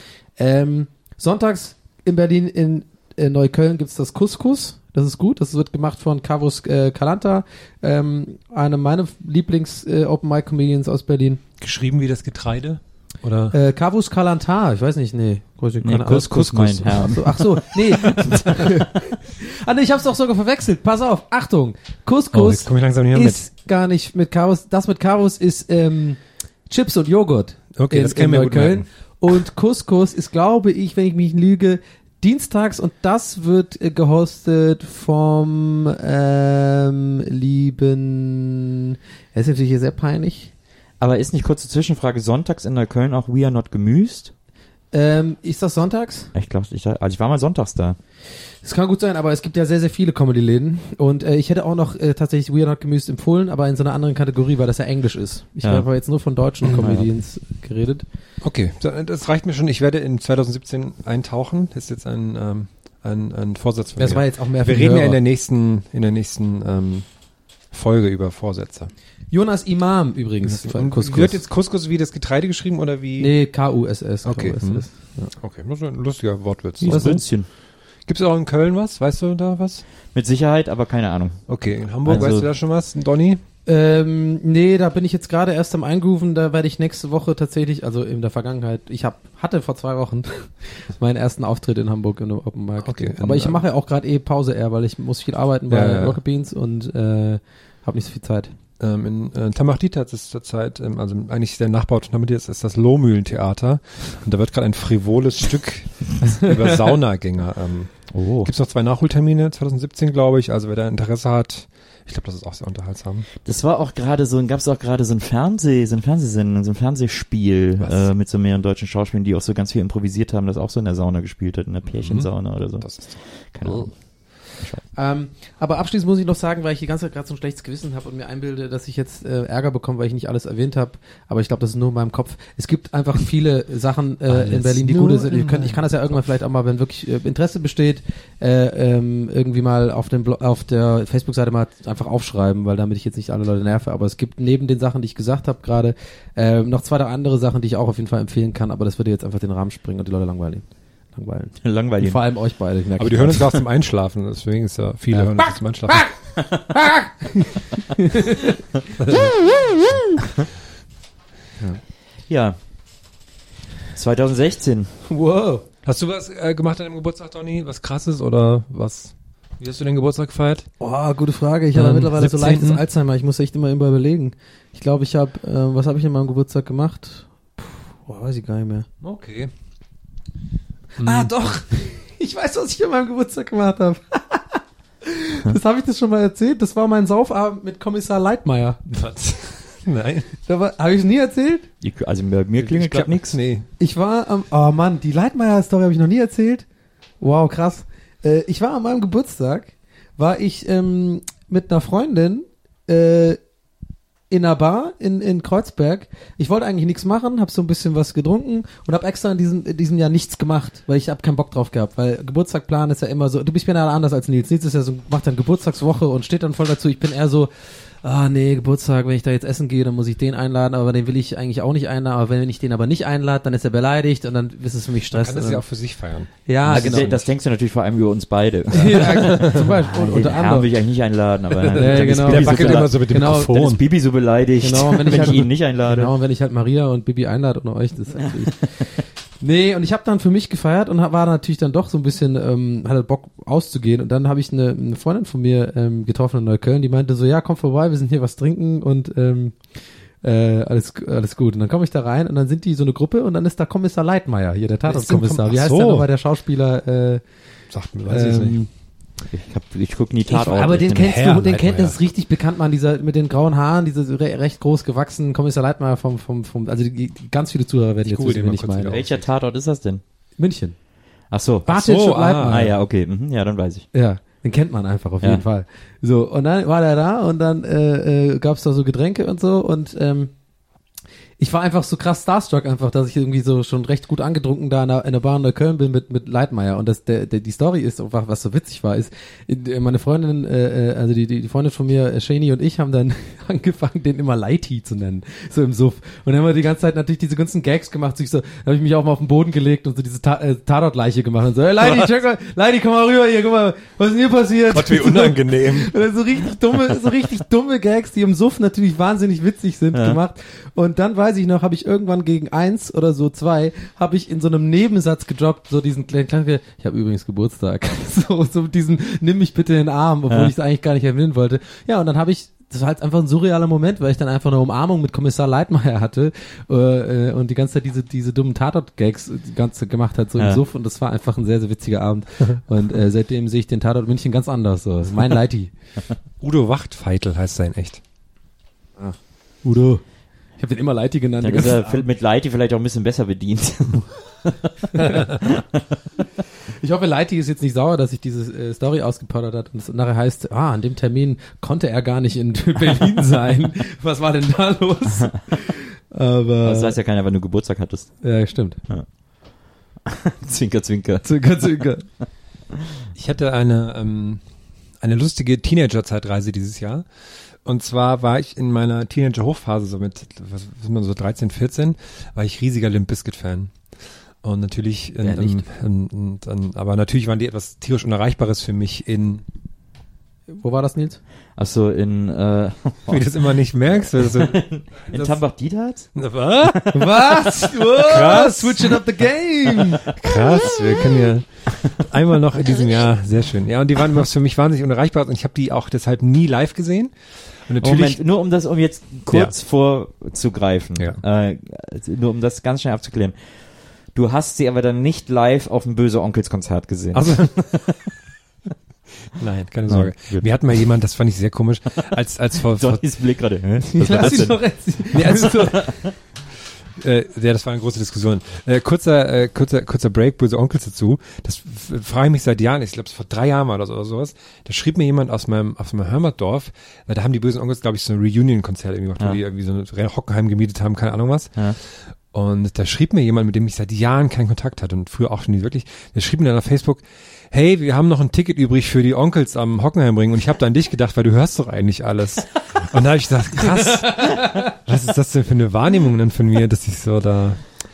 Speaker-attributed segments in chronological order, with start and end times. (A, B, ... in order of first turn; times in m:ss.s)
0:00.4-0:11.4 A
0:11.6-0:13.5 B
0:13.5-0:40.5 A
0:15.8-0:17.4 C
0:18.2-0:18.4 C
0:22.3-0:23.4 B
0:27.8-0:28.9 B
0:41.0-0:44.3 C
0:44.9-0:46.3 A
0:46.3-0:48.0 C
0:48.6-0:58.0 A
0:56.6-0:57.0 B
0:56.7-0:57.0 C
0:58.4-1:07.2 B
1:04.0-1:05.2 A
1:07.7-1:08.9 B
1:09.3-1:11.4 A
1:10.4-1:13.3 B
1:13.2-1:14.9 A
1:14.2-1:17.4 B
1:16.8-1:17.5 C
1:16.8-1:17.2 A
1:18.1-1:19.8 B
1:20.1-1:22.5 C
1:21.5-1:23.4 B
1:23.7-1:38.5 A
1:32.8-1:33.6 B
1:35.7-1:36.2 B
1:38.8-1:53.3 B
1:48.1-1:48.5 C
1:53.4-2:04.8 C
1:57.8-1:58.1 B
2:01.9-2:03.9 B
2:04.9-2:33.6 A
2:14.3-2:16.2 B
2:31.6-2:32.2 C
2:33.0-2:36.1 B
2:35.1-2:36.1 A
2:36.7-2:38.6 A
2:39.0-2:39.9 B
2:42.3-2:42.6 C
2:43.9-2:45.0 C
2:45.1-2:45.6 A
2:45.8-2:50.7 B
2:50.8-2:58.9 A
2:51.7-2:52.8 B
2:59.0-2:59.5 B
3:01.0-3:08.8 A
3:01.0-3:01.3 B
3:08.9-3:10.3 B
3:10.5-3:11.7 A
3:11.8-3:13.4 C
3:12.6-3:13.7 B
3:13.8-3:16.6 A
3:17.2-3:23.4 A
3:24.3-3:45.6 A
3:45.1-3:47.3 B
3:46.5-3:47.2 A
3:46.7-3:56.1 C
3:48.7-3:50.7 A
3:48.9-3:49.5 B
3:51.7-3:53.8 B
3:51.7-3:53.6 A
3:54.6-3:58.8 A
3:59.4-4:17.2 A
4:14.9-4:16.1 B
4:17.7-4:18.6 B
4:18.1-4:18.7 A
4:19.2-4:21.1 C
4:20.3-4:29.0 A
4:20.9-4:22.0 B
4:28.0-4:29.2 B
4:28.8-4:30.0 C
4:30.4-4:30.8 A
4:31.3-4:31.8 C
4:31.7-4:32.8 A
4:31.7-4:32.6 B
4:32.4-4:33.9 C
4:33.9-4:40.3 A
4:41.4-5:35.7 A
5:01.8-5:02.1 B
5:04.7-5:05.9 B
5:09.9-5:10.2 C
5:36.4-5:38.0 B
5:39.0-5:40.0 A
5:40.6-5:42.0 A
5:41.4-5:44.5 C
5:44.9-5:45.3 A
5:46.8-5:57.0 A
5:56.6-5:58.2 C
5:58.2-5:58.8 A
6:00.1-6:01.6 C
6:01.2-6:02.1 A
6:03.2-6:04.4 B
6:05.0-6:07.1 B
6:07.6-6:13.8 B
6:14.4-6:19.4 B
6:15.2-6:15.6 A
6:20.5-6:21.2 A
6:21.6-6:23.3 C
6:23.1-6:25.4 B
6:24.2-6:26.8 C
6:26.2-6:29.0 B
6:26.9-6:30.0 A
6:30.1-6:38.2 B
6:30.3-6:30.9 C
6:37.8-6:43.4 C
6:44.1-6:47.8 C
6:47.1-6:48.1 B
6:49.4-6:53.0 B
6:49.9-6:50.8 C
6:52.7-6:56.1 C
6:53.9-6:55.9 A
6:55.1-6:56.1 B
6:57.0-7:27.7 B